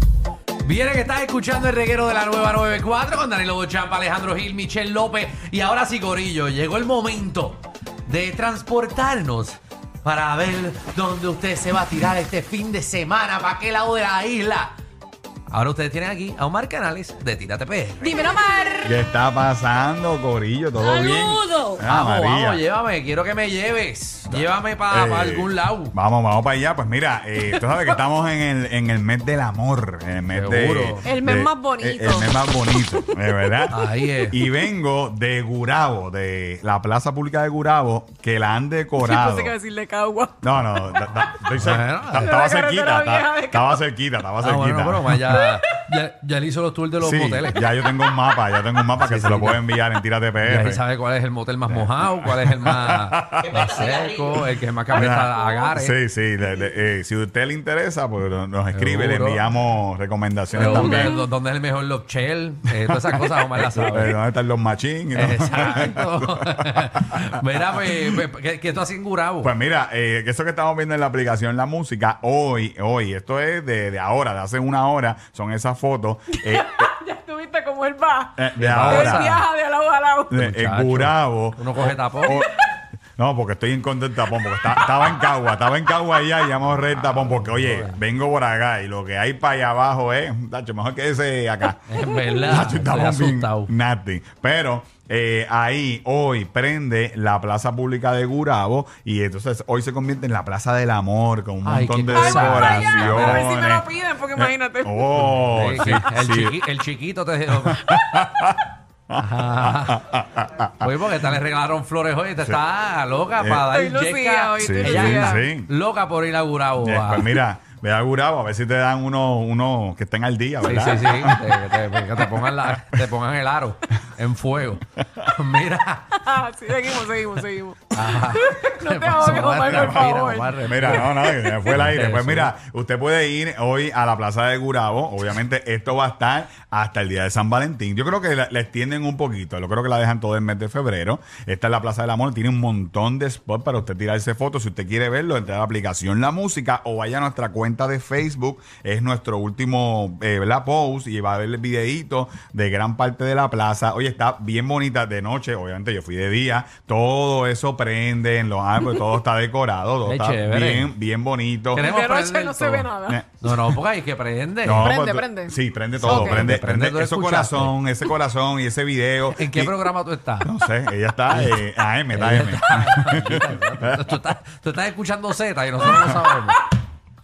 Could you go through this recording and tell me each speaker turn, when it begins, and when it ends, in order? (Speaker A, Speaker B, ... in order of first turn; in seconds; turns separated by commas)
Speaker A: 0.6-14.8, Speaker A: 15.5-18.3, Speaker B: 18.0-19.0, Speaker C: 18.8-22.6, Speaker B: 20.8-21.8, Speaker A: 21.8-25.9, Speaker C: 24.3-39.5, Speaker A: 30.3-31.0, Speaker B: 31.0-32.9, Speaker A: 33.7-34.4, Speaker B: 39.0-41.0, Speaker C: 40.4-45.4, Speaker A: 41.6-42.4, Speaker B: 42.1-43.8, Speaker A: 44.4-47.7, Speaker C: 47.0-50.8, Speaker B: 47.8-48.1, Speaker A: 49.0-49.7, Speaker A: 50.4-56.0, Speaker C: 51.7-53.4, Speaker C: 54.9-61.1, Speaker A: 58.7-59.4, Speaker A: 60.5-64.2, Speaker B: 60.6-61.0, Speaker C: 62.9-67.2, Speaker A: 65.1-69.5, Speaker C: 67.8-68.2, Speaker C: 69.4-76.9, Speaker B: 76.4-80.4, Speaker C: 78.4-79.4, Speaker A: 78.5-79.4, Speaker C: 80.3-82.7, Speaker A: 80.3-82.4, Speaker C: 83.2-106.6, Speaker A: 87.2-88.0, Speaker A: 91.9-93.7, Speaker A: 101.6-103.5, Speaker B: 102.1-106.1, Speaker A: 105.2-107.8, Speaker C: 107.5-110.9, Speaker A: 109.1-110.0, Speaker A: 110.8-117.3, Speaker C: 113.4-113.7, Speaker B: 113.7-115.5, Speaker C: 114.6-115.7, Speaker C: 116.8-122.3, Speaker A: 120.6-126.2, Speaker B: 126.2-131.7, Speaker A: 127.9-131.1, Speaker C: 129.5-161.9, Speaker A: 131.7-132.5, Speaker A: 160.0-160.9, Speaker B: 161.7-163.2, Speaker A: 161.7-164.9, Speaker C: 163.1-163.8, Speaker C: 164.6-169.8, Speaker B: 164.8-166.6, Speaker A: 165.9-167.7, Speaker A: 169.3-170.5, Speaker C: 170.4-174.2, Speaker A: 171.3-171.6, Speaker A: 172.1-176.7